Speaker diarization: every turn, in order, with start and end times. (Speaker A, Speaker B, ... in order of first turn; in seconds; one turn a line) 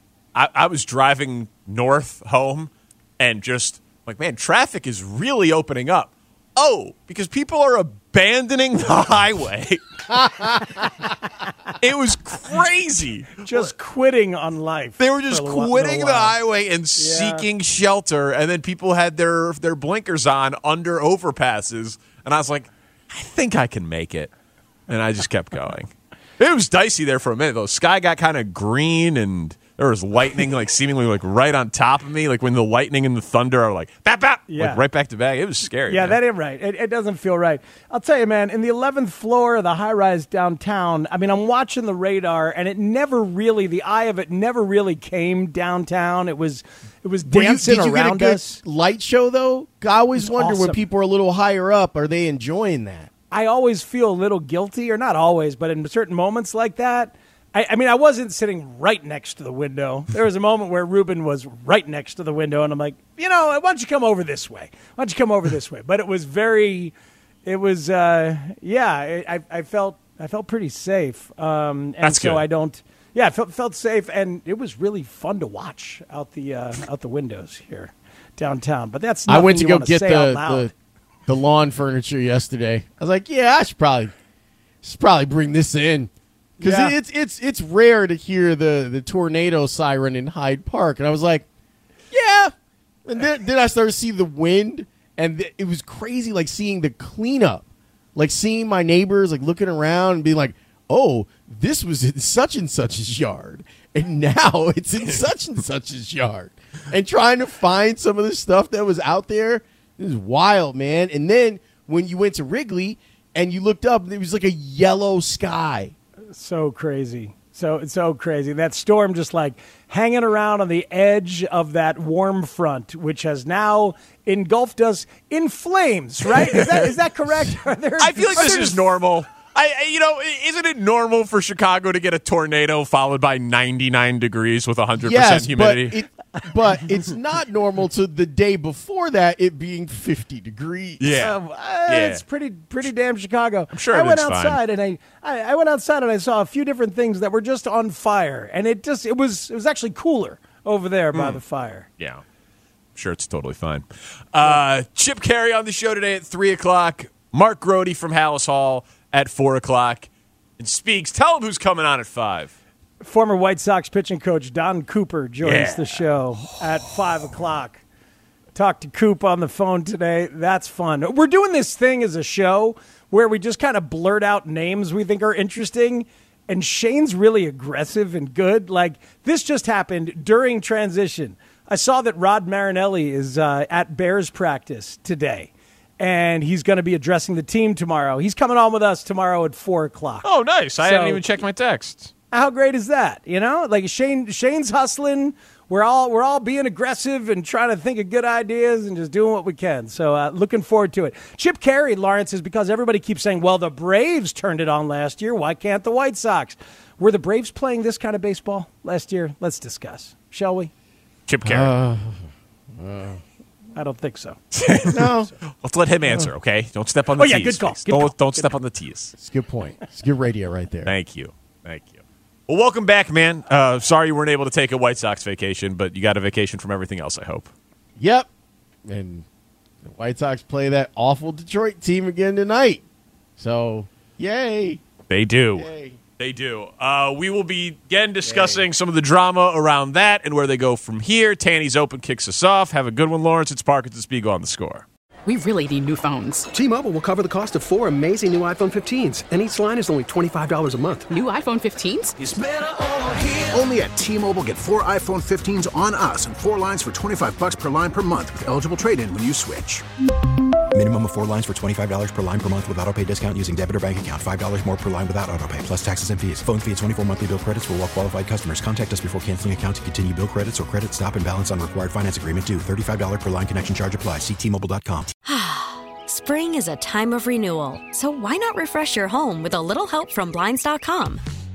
Speaker A: 0.3-10.0
Speaker B: 10.1-10.8
Speaker A: 11.8-13.7
Speaker C: 13.4-16.3
Speaker A: 15.0-24.3
Speaker C: 17.0-17.5
Speaker A: 24.9-36.2
Speaker C: 34.5-34.8
Speaker C: 35.9-48.6
Speaker B: 47.2-53.1
Speaker C: 50.1-50.8
Speaker C: 53.3-66.9
Speaker C: 67.5-80.7
Speaker A: 72.0-72.4
Speaker B: 79.3-80.7
Speaker B: 81.3-84.1
Speaker B: 84.8-91.5
Speaker C: 86.6-86.9
Speaker B: 92.1-92.5
Speaker B: 93.0-115.9
Speaker C: 116.3-128.8
Speaker A: 126.5-126.8
Speaker A: 128.0-136.0
Speaker B: 135.0-141.2
Speaker A: 141.0-142.2
Speaker C: 141.1-151.9
Speaker A: 143.7-144.6
Speaker A: 151.1-151.4
Speaker A: 152.9-162.5
Speaker C: 163.0-167.8
Speaker A: 165.4-166.5
Speaker C: 168.5-190.2
Speaker A: 190.2-192.1
Speaker C: 190.8-191.2
Speaker C: 192.3-210.7
Speaker A: 211.3-211.7
Speaker B: 211.4-213.2
Speaker C: 213.8-214.4
Speaker A: 214.5-219.1
Speaker B: 214.8-215.3
Speaker C: 217.2-218.4
Speaker B: 219.2-220.9
Speaker A: 220.8-227.5
Speaker B: 228.0-228.3
Speaker B: 228.8-229.2
Speaker B: 229.8-232.8
Speaker B: 233.4-234.8
Speaker A: 235.1-244.8
Speaker B: 235.6-236.0
Speaker B: 238.2-238.7
Speaker D: 245.2-246.4
Speaker E: 246.5-251.1
Speaker D: 251.1-252.1
Speaker F: 252.2-259.8
Speaker G: 260.7-275.1
Speaker H: 275.2-281.2